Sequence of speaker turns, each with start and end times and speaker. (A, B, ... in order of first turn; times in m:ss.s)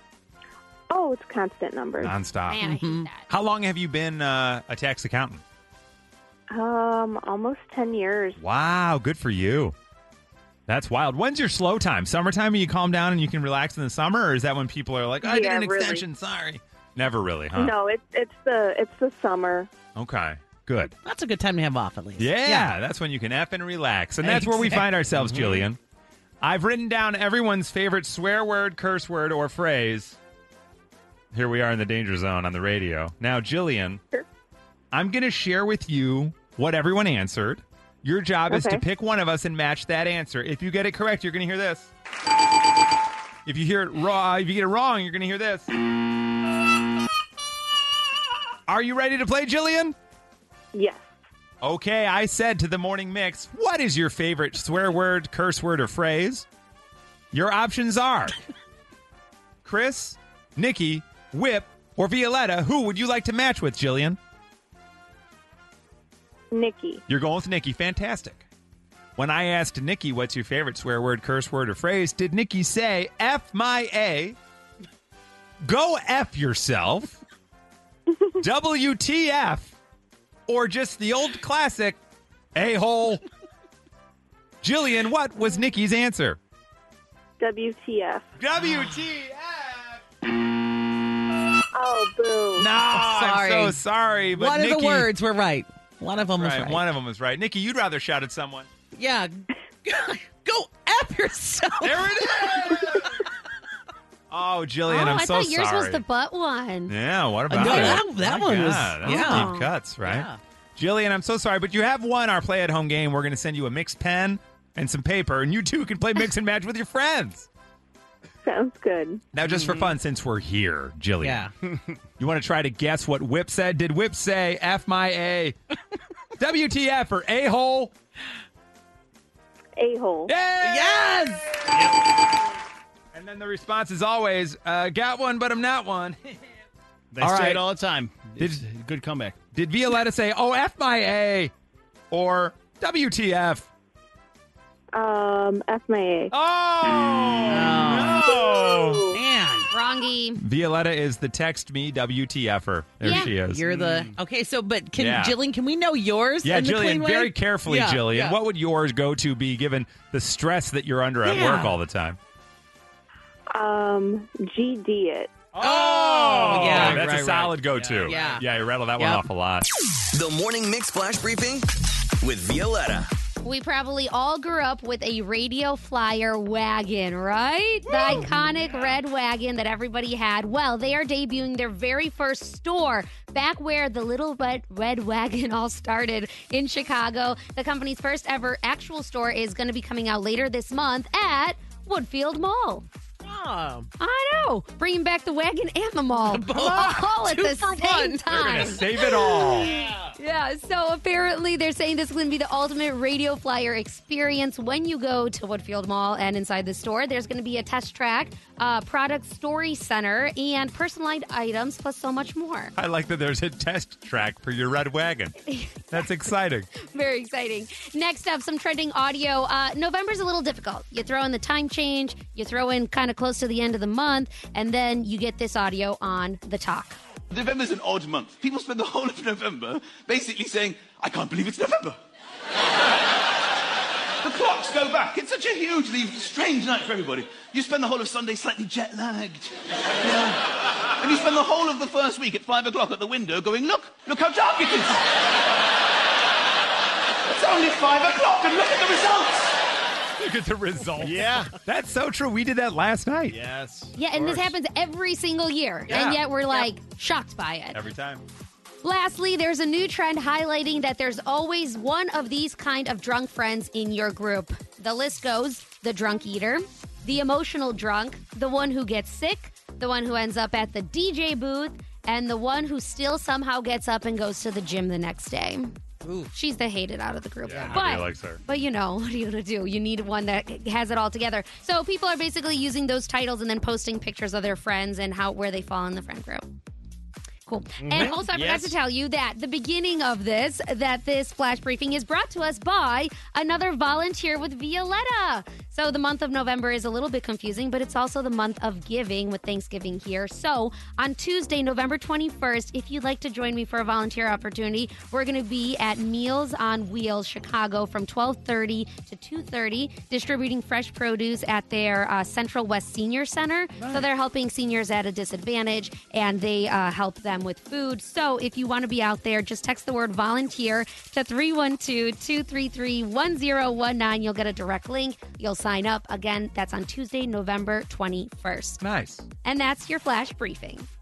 0:00.9-0:02.2 A
0:02.0-0:02.6 B
0:02.5-0:03.3 C
0:02.6-0:03.1 D
0:03.3-0:05.4 B
0:06.5-0:08.4 A
0:08.4-0:09.8 B
0:10.7-0:17.8 B
0:15.2-0:16.0 A
0:17.6-0:19.7 A
0:20.0-0:21.0 B
0:21.0-0:22.7 D
0:22.2-0:25.8 B
0:24.2-0:24.9 D
0:25.2-0:25.6 E
0:26.4-0:30.2 B
0:31.3-0:34.0 B
0:34.9-0:41.9 B
0:38.5-0:38.8 A
0:43.5-0:45.7 B
0:48.7-0:50.0 B
0:50.7-0:51.1 A
0:51.6-0:56.5 B
0:57.3-0:58.4 B
0:59.6-1:04.2 B
1:06.5-1:07.0 A
1:07.1-1:08.5 B
1:09.2-1:14.4 B
1:15.6-1:17.2 B
1:18.4-1:19.8 B
1:20.5-1:22.0 B
1:22.6-1:23.2 B
1:24.6-1:26.4 B
1:27.4-1:28.3 A
1:28.4-1:30.0 B
1:31.7-1:32.7 A
1:32.6-1:35.1 B
1:32.9-1:33.8 D
1:34.4-1:36.8 D
1:36.4-1:38.7 B
1:38.9-1:42.2 D
1:41.8-1:43.2 B
1:44.3-1:46.0 B
1:44.9-1:47.0 C
1:46.9-1:57.5 B
1:47.5-1:50.4 D
1:47.6-1:48.0 C
1:49.0-1:49.7 C
1:58.4-1:59.2 A
1:59.3-2:01.5 B
1:59.6-1:59.9 D
2:01.2-2:01.5 D
2:01.6-2:02.0 E
2:02.2-2:05.6 B
2:06.4-2:07.9 B
2:09.8-2:10.4 A
2:10.3-2:11.8 B
2:10.6-2:11.5 D
2:11.7-2:12.0 E
2:13.1-2:16.4 B
2:17.1-2:19.4 E
2:17.2-2:17.7 B
2:18.4-2:18.7 B
2:19.5-2:21.5 B
2:22.1-2:23.7 B
2:24.9-2:26.3 A
2:26.3-2:29.1 B
2:27.5-2:28.3 D
2:29.1-2:29.7 D
2:29.7-2:30.4 C
2:30.4-2:33.6 B
2:33.0-2:33.4 C
2:33.2-2:38.4 D
2:33.6-2:34.2 E
2:35.0-2:35.4 B
2:36.4-2:42.2 B
2:41.2-2:41.8 D
2:43.5-2:45.3 A
2:45.6-2:49.7 B
2:45.6-2:47.1 D
2:46.3-2:48.4 E
2:48.0-2:48.4 D
2:49.0-2:49.2 D
2:50.1-2:51.7 F
2:52.2-2:53.1 F
2:53.4-3:12.9 C
2:57.9-2:58.5 D
3:13.2-3:13.9 D
3:14.0-3:32.7 C
3:16.1-3:18.6 D
3:18.3-3:19.7 B
3:32.8-3:35.4 B
3:35.5-3:36.0 C
3:35.9-3:36.7 B
3:36.8-3:47.0 C
3:47.3-3:52.0 G
3:54.2-4:05.0 G
4:07.3-4:09.6 G
4:10.2-4:13.4 B
4:11.0-4:11.5 E
4:13.3-4:14.6 E
4:14.0-4:17.8 C
4:15.9-4:16.2 B
4:17.7-4:18.2 B
4:18.8-4:35.8 C
4:36.0-4:36.3 D
4:36.3-4:46.5 C
4:37.4-4:38.4 B
4:47.5-5:28.8 C
4:47.8-4:48.8 E
5:13.8-5:14.1 B
5:28.8-5:29.3 B
5:29.4-5:30.9 C